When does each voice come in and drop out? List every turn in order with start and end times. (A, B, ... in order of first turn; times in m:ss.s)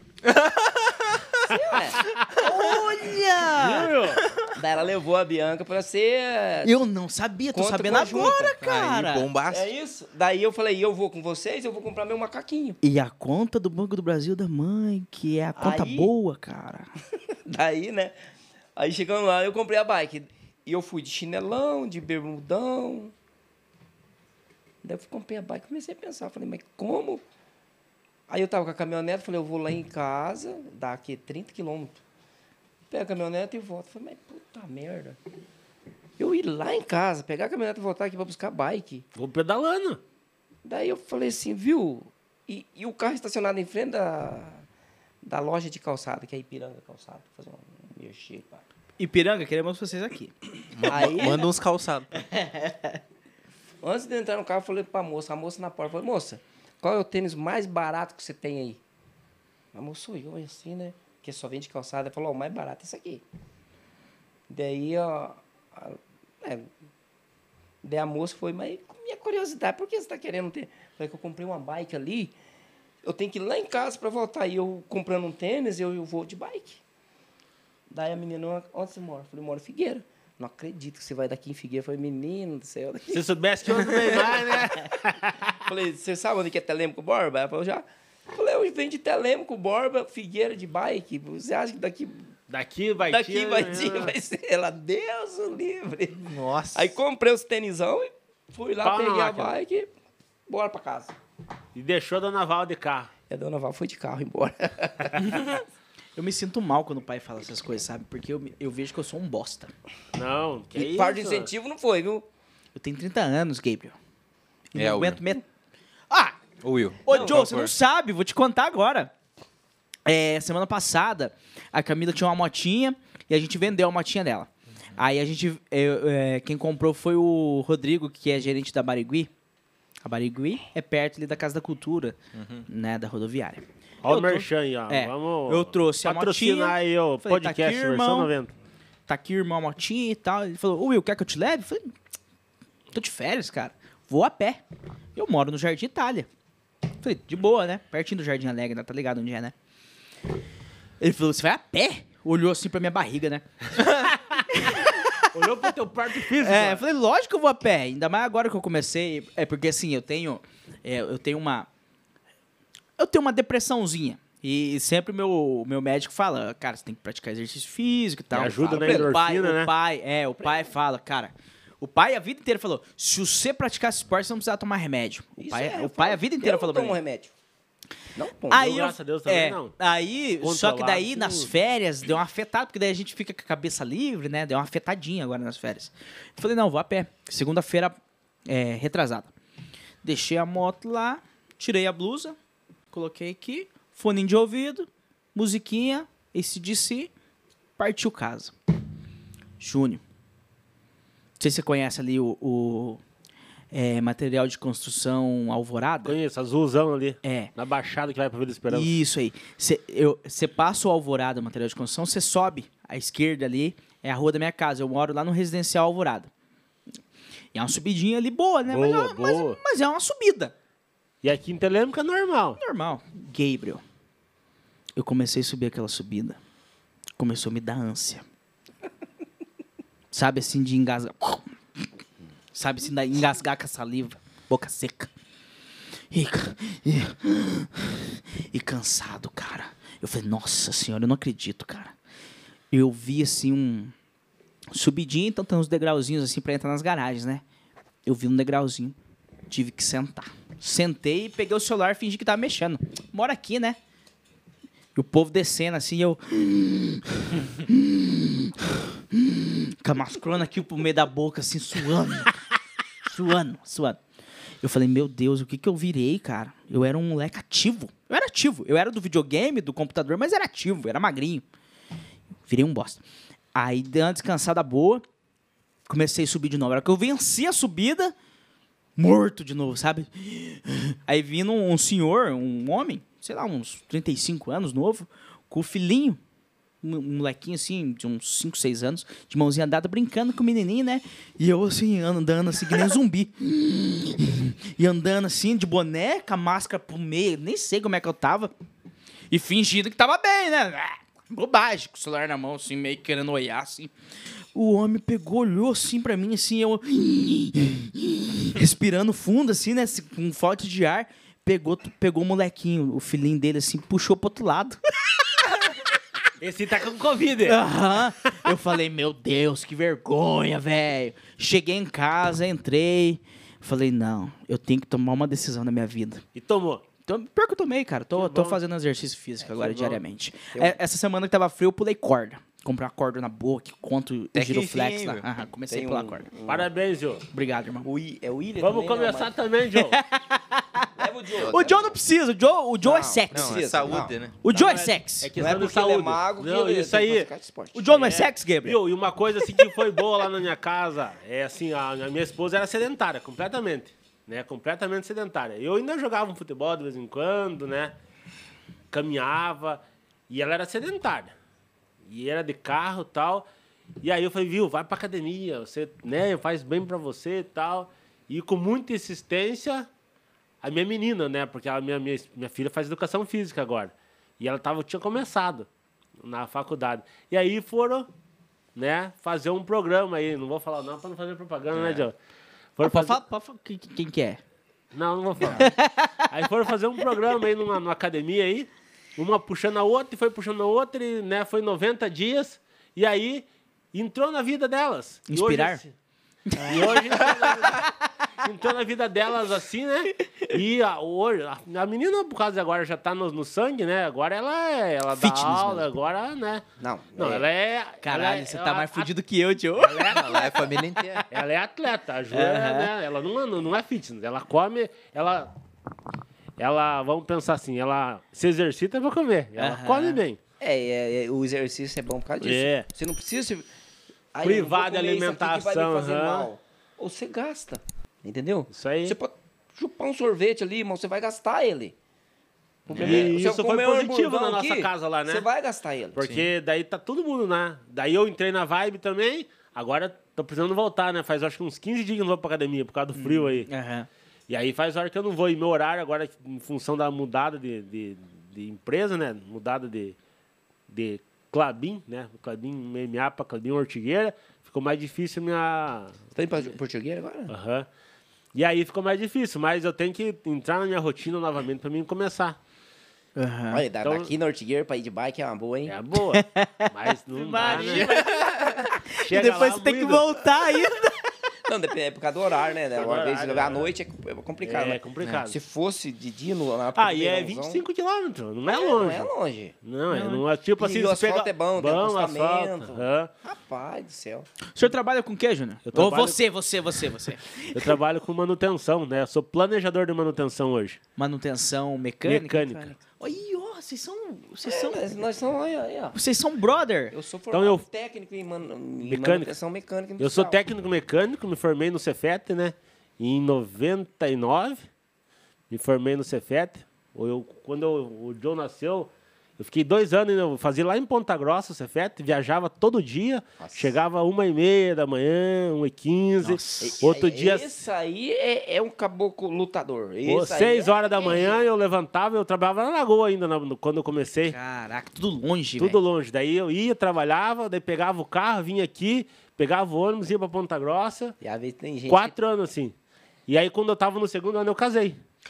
0:00.2-0:01.4 A
0:01.5-0:02.2 B
0:02.4-0:03.9 C
0:03.5-0:04.2 D
0:04.5-0:06.8 B
0:06.6-0:09.3 C
0:07.5-0:08.6 B
0:08.6-0:09.7 A
0:09.4-0:12.8 B
0:12.8-0:16.9 C
0:15.6-0:16.1 B
0:17.4-0:18.1 B
0:18.8-0:23.1 B
0:24.8-0:27.2 B
0:28.3-0:32.0 B
0:32.9-0:35.2 B
0:36.2-0:39.0 B
0:39.2-0:40.0 D
0:40.6-0:44.6 B
0:45.2-0:48.6 B
0:49.0-0:50.3 C
0:50.7-0:52.2 A
0:50.8-0:51.4 C
0:50.8-0:51.5 B
0:52.2-0:53.0 C
0:53.8-0:58.8 B
0:59.7-1:03.2 B
1:04.5-1:06.7 B
1:07.8-1:12.3 B
1:13.0-1:16.8 B
1:17.9-1:24.7 B
1:23.1-1:25.5 D
1:25.6-1:32.3 B
1:32.5-1:34.1 D
1:33.0-1:39.9 B
1:36.1-1:37.0 A
1:38.8-1:39.6 D
1:40.5-1:41.2 B
1:41.7-1:43.1 D
1:43.3-1:45.6 B
1:46.2-1:49.7 C
1:50.1-1:51.5 D
1:50.7-1:52.2 B
1:52.7-1:54.0 C
1:54.7-1:55.4 C
1:54.7-1:55.2 A
1:56.1-1:56.4 C
1:56.6-1:57.7 A
1:57.0-1:59.1 C
2:00.0-2:09.3 C
2:10.0-2:12.2 C
2:12.3-2:12.6 A
2:12.7-2:18.3 C
2:14.0-2:18.5 D
2:19.1-2:22.0 C
2:22.9-2:24.6 C
2:25.2-2:26.3 C
2:27.0-2:29.5 C
2:31.0-2:33.4 C
2:33.8-2:36.8 D
2:34.5-2:35.3 C
2:36.4-2:41.7 C
2:43.0-2:57.0 C
2:48.3-2:49.7 D
2:48.6-2:49.1 B
2:55.4-2:57.3 B
2:58.1-2:58.8 B
2:58.5-3:09.3 C
2:58.5-2:59.7 D
3:00.4-3:01.5 D
3:10.0-3:12.4 C
3:12.9-3:17.1 C
3:17.8-3:18.5 C
3:19.6-3:20.0 C
3:21.4-3:23.0 C
3:23.7-3:26.2 C
3:26.0-3:28.9 D
3:27.2-3:27.5 C
3:28.7-3:36.3 C
3:37.5-3:40.5 C
3:38.7-3:39.6 D
3:41.2-3:42.6 D
3:42.6-3:43.8 C
3:45.0-3:46.4 C
3:47.2-3:48.2 C
3:50.1-3:51.5 C
3:52.5-3:55.1 C
3:56.1-4:01.9 C
4:02.7-4:03.9 C
4:04.7-4:07.4 C
4:08.0-4:09.0 C
4:09.5-4:13.8 C
4:14.9-4:22.3 C
4:23.1-4:24.0 C
4:24.6-4:31.4 C
4:32.4-4:33.0 C
4:33.5-4:35.0 C
4:35.9-4:38.1 C
4:39.0-4:46.2 C
4:46.8-4:58.5 C
4:59.3-5:03.9 C
5:04.5-5:14.8 C
5:16.4-5:17.6 D
5:17.4-5:26.2 C
5:26.3-5:26.8 D
5:27.1-5:36.2 C
5:28.1-5:28.6 D
5:29.6-5:29.9 D
5:34.3-5:35.2 A
5:35.7-5:36.7 B
5:36.4-5:37.2 D
5:37.3-5:37.9 C
5:37.8-5:39.3 B
5:38.6-5:40.0 D
5:39.8-5:40.9 C
5:41.0-5:41.9 B
5:41.4-5:41.8 A
5:41.4-5:43.7 C
5:42.8-5:47.9 B
5:43.3-5:44.4 A
5:44.4-5:45.3 C
5:45.2-5:47.3 D
5:47.7-5:48.8 C
5:47.9-5:57.9 D
5:58.9-6:01.3 D
6:02.1-6:03.4 D
6:04.0-6:09.9 D
6:10.6-6:15.7 D
6:16.2-6:18.1 D
6:18.8-6:22.1 D
6:22.8-6:23.2 D
6:22.8-6:24.4 C
6:24.9-6:25.7 D
6:25.4-6:26.3 C
6:26.3-6:35.9 D
6:35.3-6:35.8 C
6:36.5-6:37.0 C
6:36.6-6:37.3 B
6:36.7-6:37.9 D
6:38.4-6:46.6 D
6:40.2-6:40.5 C
6:45.2-6:45.9 C
6:46.8-6:47.4 B
6:47.2-6:49.1 D
6:48.0-6:51.3 C
6:49.8-6:50.5 D
6:50.1-6:51.2 A
6:51.3-6:55.5 D
6:52.3-6:52.9 C
6:56.6-7:00.4 D
6:59.6-7:00.2 C
7:00.6-7:03.6 B
7:02.4-7:02.9 D
7:04.3-7:11.9 B
7:04.4-7:06.5 D
7:08.7-7:09.2 D
7:12.8-7:13.4 A
7:12.9-7:16.2 B
7:13.0-7:15.4 D
7:16.1-7:23.7 D
7:16.2-7:16.5 A
7:23.2-7:24.1 C
7:24.5-7:30.2 D
7:30.9-7:36.7 D
7:36.3-7:37.5 B
7:37.5-7:37.9 D
7:38.5-7:42.6 D
7:43.4-7:43.8 C
7:43.7-7:45.9 B
7:44.0-7:44.3 D
7:45.8-7:48.1 D
7:46.3-7:51.3 C
7:47.7-7:48.9 A
7:49.2-7:50.4 D
7:51.6-7:57.8 B
7:52.9-7:53.9 D
7:54.6-7:55.6 D
7:56.9-7:59.3 D
7:58.7-7:59.7 B
7:59.8-8:03.3 D
8:00.1-8:00.4 C
8:00.8-8:04.5 B
8:04.7-8:08.0 C
8:05.9-8:06.4 D
8:07.7-8:11.0 D
8:11.2-8:15.0 C
8:12.2-8:12.9 D
8:14.6-8:16.2 B
8:16.1-8:17.1 C
8:17.1-8:20.6 B
8:17.5-8:17.8 D
8:19.0-8:19.5 D
8:20.2-8:24.8 D
8:25.7-8:37.8 D
8:33.6-8:34.0 B
8:36.4-8:37.0 C
8:36.8-8:41.7 B
8:40.2-8:44.6 D
8:44.5-8:46.0 C
8:45.8-8:51.3 D
8:51.4-8:52.3 B
8:52.1-8:52.9 D
8:53.5-8:55.2 D